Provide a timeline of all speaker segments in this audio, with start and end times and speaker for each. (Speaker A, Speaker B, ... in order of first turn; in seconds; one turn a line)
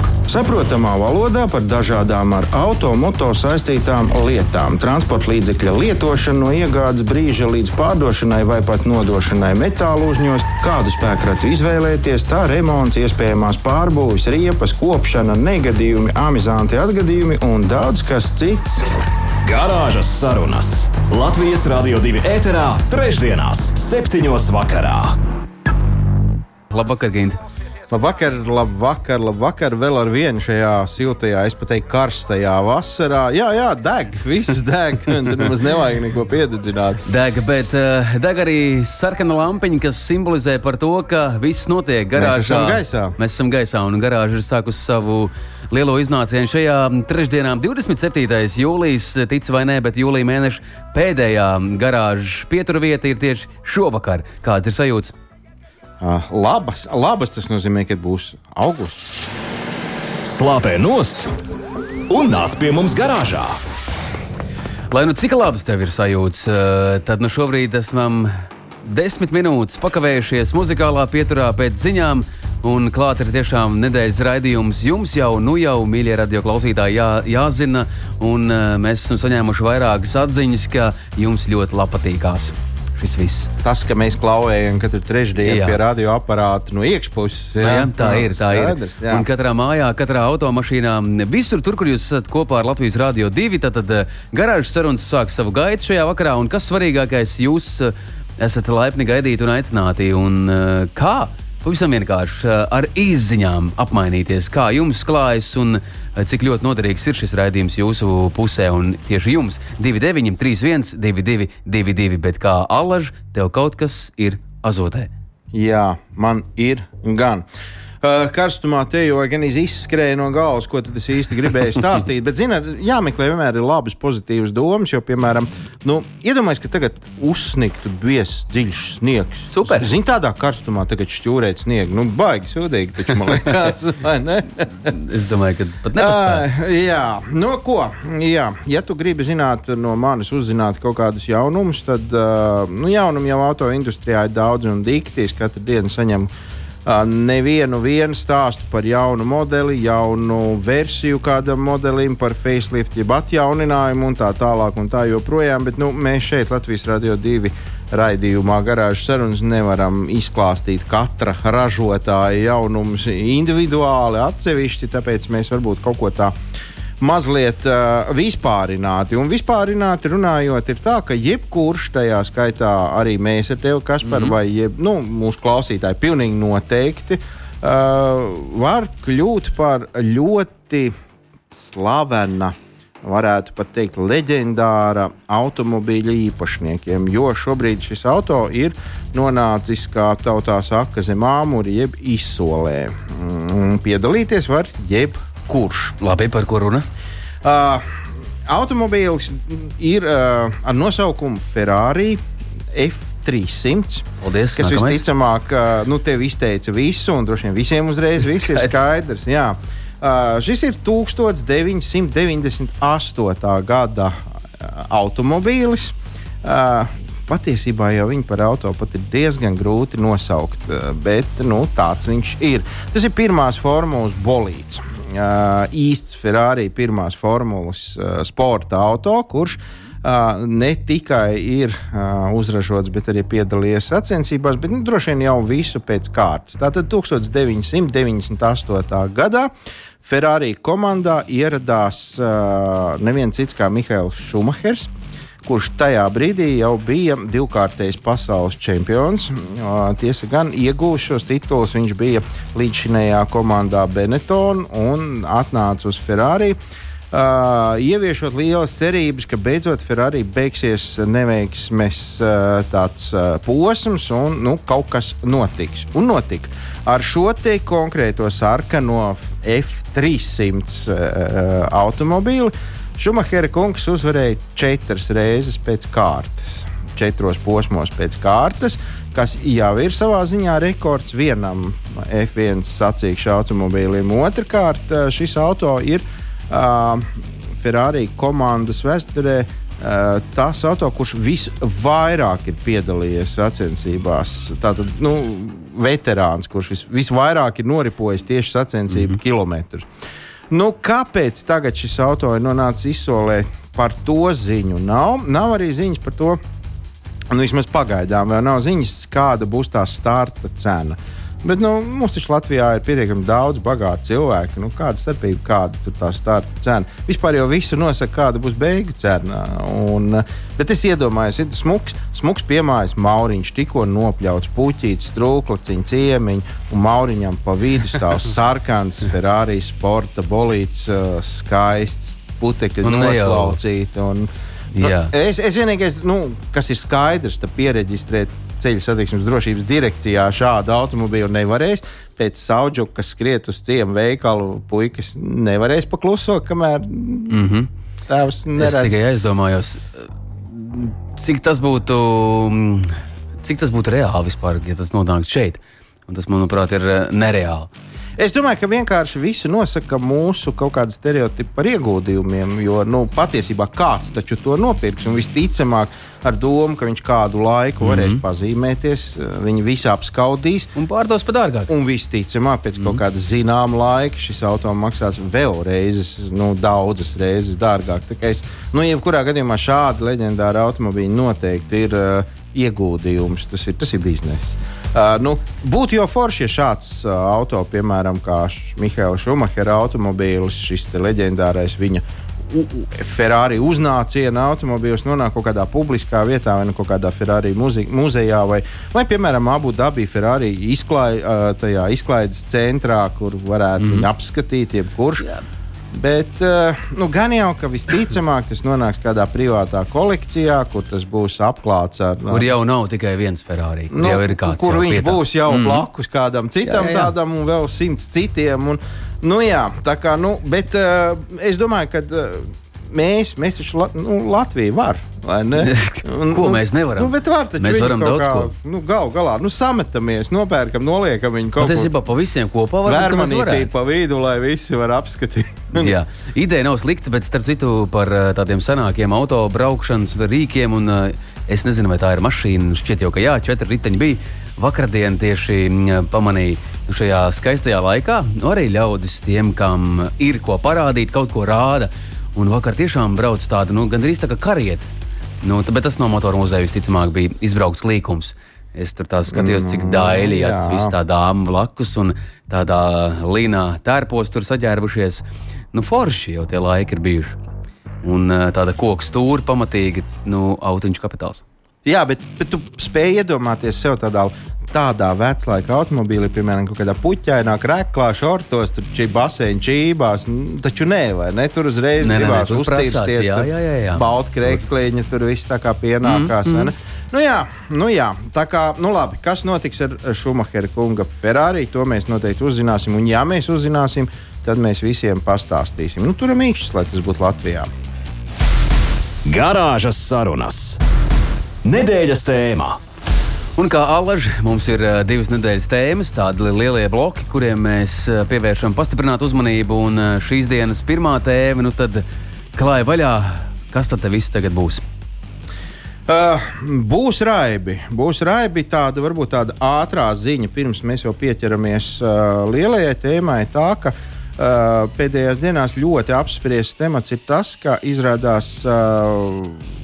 Speaker A: 0.3-18.9
Speaker B: 19.4-25.1
Speaker C: 26.7-27.4
Speaker A: 27.9-37.0
Speaker C: 37.1-55.1
Speaker A: 42.1-43.2
Speaker A: 56.0-59.1
Speaker B: 60.2-61.3
Speaker B: 62.1-63.6
Speaker C: 64.9-83.5
Speaker A: 83.6-89.3
Speaker C: 85.4-85.8
Speaker C: 87.6-115.1
Speaker A: 115.5-117.5
Speaker A: 118.0-134.9
Speaker C: 129.5-129.9
Speaker C: 134.8-136.5
Speaker A: 136.0-146.3
Speaker A: 146.8-166.3
Speaker A: 167.0-180.9
Speaker C: 174.1-174.3
Speaker A: 181.5-195.9
Speaker C: 196.0-196.9
Speaker A: 197.4-202.2
Speaker A: 202.7-239.5
Speaker C: 204.2-205.1
Speaker C: 208.3-208.7
Speaker A: 240.0-244.9
Speaker A: 245.4-256.6
Speaker A: 257.1-299.9
Speaker A: 300.5-306.4
Speaker A: 307.3-334.3
Speaker C: 332.8-333.6
Speaker C: 334.7-335.1
Speaker A: 334.8-347.5
Speaker C: 347.3-347.7
Speaker A: 348.1-349.0
Speaker C: 348.6-357.7
Speaker A: 358.2-370.7
Speaker C: 367.8-368.2
Speaker C: 370.8-371.7
Speaker A: 371.7-405.3
Speaker C: 403.8-404.1
Speaker A: 405.9-412.5
Speaker C: 412.3-415.9
Speaker A: 413.9-431.9
Speaker C: 416.6-417.1
Speaker C: 425.6-428.5
Speaker C: 431.6-433.7
Speaker A: 432.9-435.9
Speaker C: 435.7-454.9
Speaker C: 455.4-467.4
Speaker A: 459.3-460.9
Speaker C: 468.0-471.4
Speaker A: 471.9-497.7
Speaker C: 482.0-484.1
Speaker C: 486.0-486.7
Speaker B: 499.3-500.8
Speaker B: 501.6-502.8
Speaker C: 503.6-514.8
Speaker A: 516.1-529.7